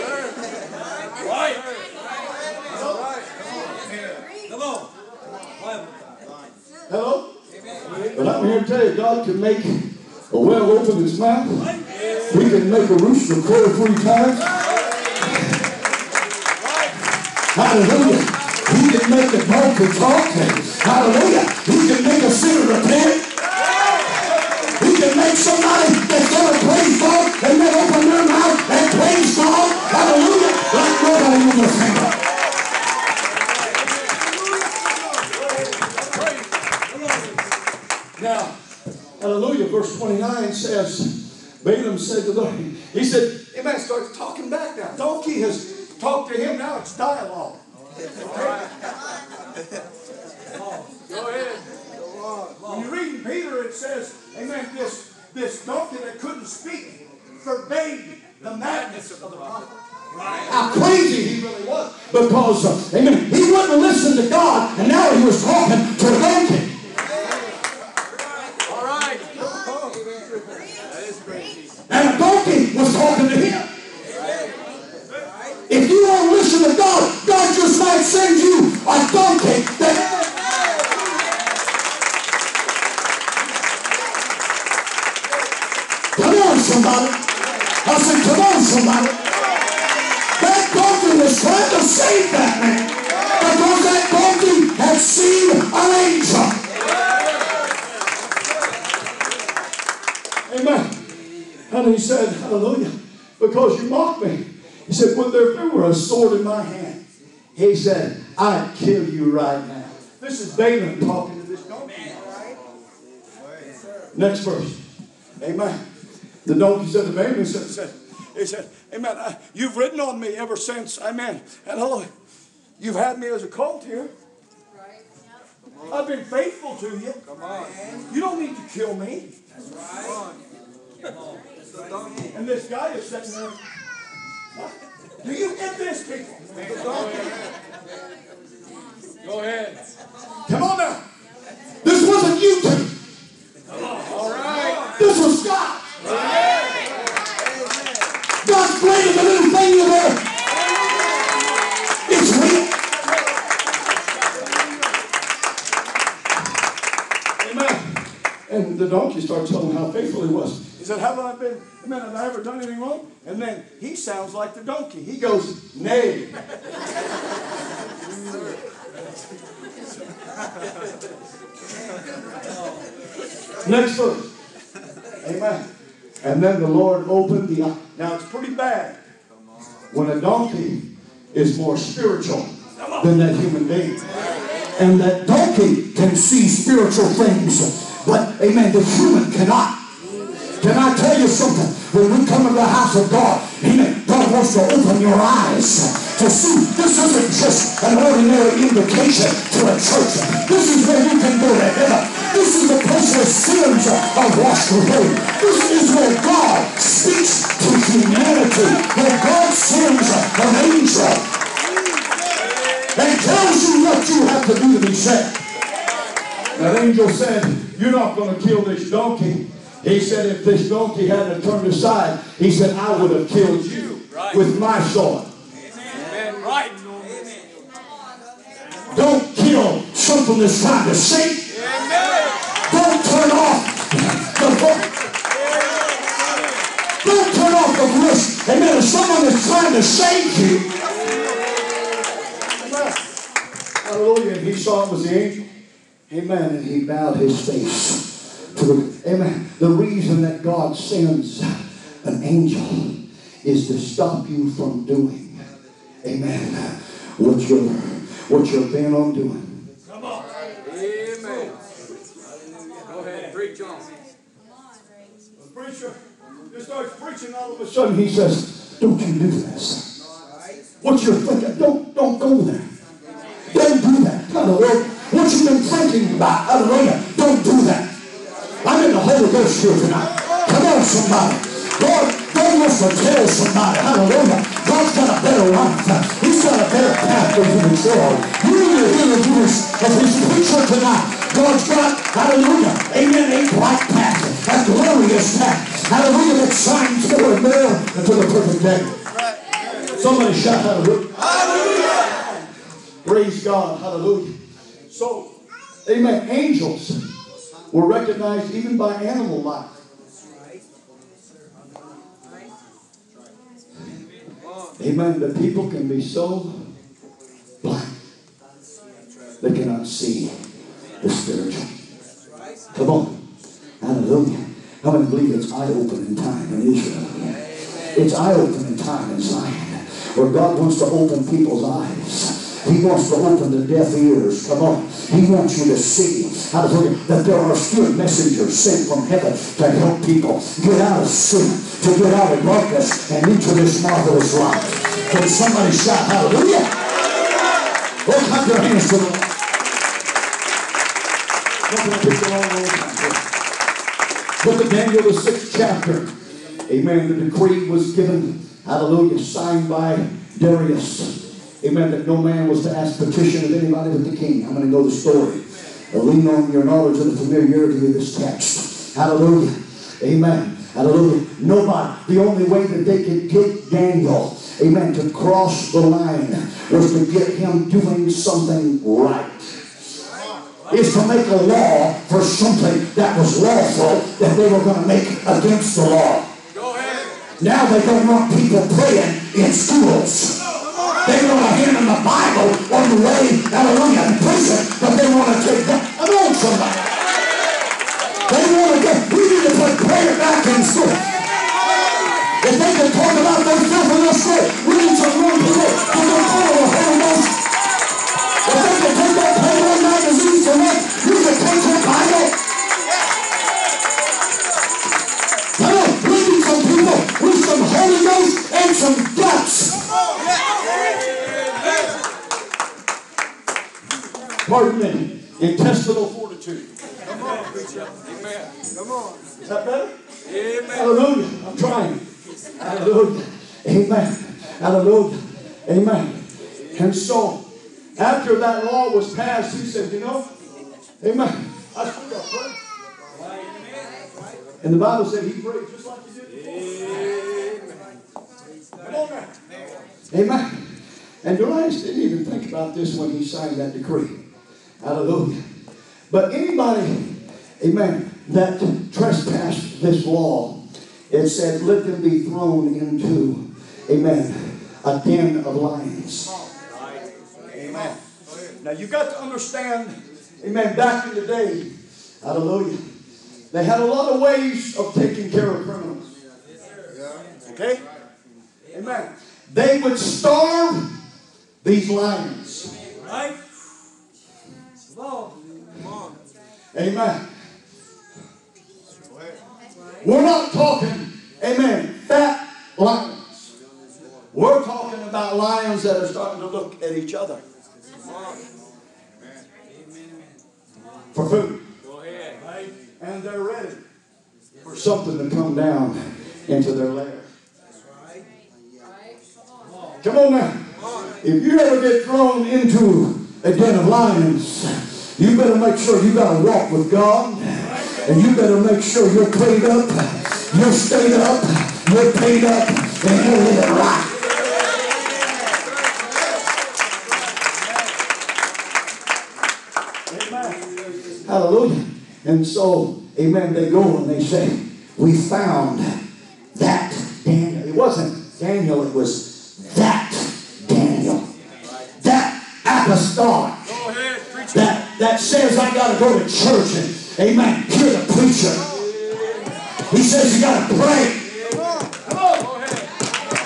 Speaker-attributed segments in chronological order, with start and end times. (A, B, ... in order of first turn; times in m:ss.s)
0:01.2-0:01.6 A
0:06.9-0:07.3 B
0:08.0-0:11.7 B
0:12.3-0:14.5 B
0:17.5-0:23.2 B
0:24.8-0:32.1 B
0:38.2-0:38.5 B
0:39.2-0:47.6 B
0:48.2-0:48.7 A
0:48.3-0:48.6 B
0:50.9-0:51.8 A
0:52.6-0:59.8 B
1:00.5-1:06.7 B
1:08.6-1:09.5 A
1:10.8-1:11.6 A
1:11.9-1:13.7 B
1:15.7-1:20.2 B
1:26.2-1:29.2 B
1:30.4-1:36.6 B
1:40.5-1:40.9 B
1:41.7-1:47.0 B
1:47.5-1:52.2 B
1:54.1-1:54.8 B
1:55.4-1:55.8 B
1:56.4-2:02.1 B
2:02.8-2:04.1 B
2:05.8-2:07.2 B
2:08.1-2:09.3 B
2:12.3-2:13.6 B
2:14.5-2:16.9 B
2:16.8-2:17.3 A
2:19.2-2:19.8 A
2:20.5-2:21.0 B
2:21.8-2:22.9 B
2:23.9-2:24.8 A
2:24.9-2:25.9 B
2:26.2-2:26.4 A
2:28.4-2:30.2 B
2:32.0-2:32.7 B
2:37.4-2:37.8 B
2:38.5-2:46.3 B
2:53.6-2:54.3 B
2:55.2-2:55.6 B
2:56.2-2:59.0 B
2:59.9-3:00.8 B
3:01.3-3:04.0 B
3:04.7-3:09.7 B
3:10.6-3:31.2 B
3:32.9-3:35.4 B
3:36.5-3:45.3 B
3:44.1-3:44.4 A
3:45.8-3:47.1 A
3:48.9-3:51.6 B
3:51.6-3:52.3 A
3:52.6-3:54.9 B
3:57.0-4:00.6 B
4:02.6-4:03.0 B
4:03.8-4:05.4 B
4:06.1-4:11.5 B
4:12.0-4:15.4 B
4:16.0-4:19.6 B
4:20.0-4:21.6 A
4:22.8-4:23.9 A
4:25.4-4:26.0 B
4:26.5-4:29.8 B
4:30.8-4:32.6 B
4:33.5-4:37.9 B
4:38.6-4:58.9 B
4:59.9-5:02.4 B
5:03.0-5:04.3 B
5:04.9-5:05.3 B
5:05.8-5:07.0 B
5:07.7-5:09.7 B
5:14.8-5:16.7 B
5:17.6-5:17.9 B
5:19.4-5:20.3 B
5:21.0-5:21.7 B
5:22.7-5:23.2 B
5:23.8-5:46.7 B
5:48.0-5:49.3 B
5:51.7-5:53.2 B
5:54.4-5:56.1 B
5:56.7-6:19.6 B
6:20.7-6:26.3 B
6:26.5-6:27.1 A
6:27.4-6:30.4 B
6:31.0-6:36.8 B
6:38.3-6:41.0 B
6:42.4-6:47.4 B
6:48.4-6:52.3 B
6:55.6-6:59.8 B
7:00.6-7:01.9 A
7:04.4-7:06.7 B
7:07.2-7:08.5 A
7:09.4-7:09.9 B
7:10.2-7:10.9 A
7:10.6-7:12.0 B
7:12.6-7:16.2 B
7:16.7-7:17.4 B
7:18.0-7:20.2 B
7:21.0-7:22.6 B
7:23.1-7:24.1 A
7:24.6-7:26.7 B
7:26.4-7:27.9 A
7:28.8-7:29.3 B
7:30.1-7:30.6 B
7:31.2-7:34.2 B
7:34.8-7:35.4 B
7:36.1-7:40.6 B
7:41.1-7:46.4 B
7:46.7-7:47.1 A
7:47.5-7:48.0 B
7:48.6-7:51.7 B
7:52.2-7:52.8 B
7:53.5-7:56.1 B
7:57.4-7:57.8 B
7:58.7-8:00.9 B
8:01.6-8:02.7 B
8:03.0-8:03.4 A
8:06.7-8:07.2 B
8:10.0-8:13.5 B
8:14.3-8:17.4 B
8:21.1-8:21.6 B
8:21.8-8:22.4 A
8:22.6-8:23.8 B
8:24.6-8:27.3 B
8:30.0-8:30.5 B
8:31.2-8:44.1 B
8:50.1-8:50.6 B
8:51.2-8:55.9 B
8:56.5-9:01.3 B
9:02.0-9:03.8 B
9:03.7-9:04.7 A
9:04.5-9:08.8 B
9:08.9-9:09.5 A
9:09.8-9:11.3 B
9:11.5-9:12.9 A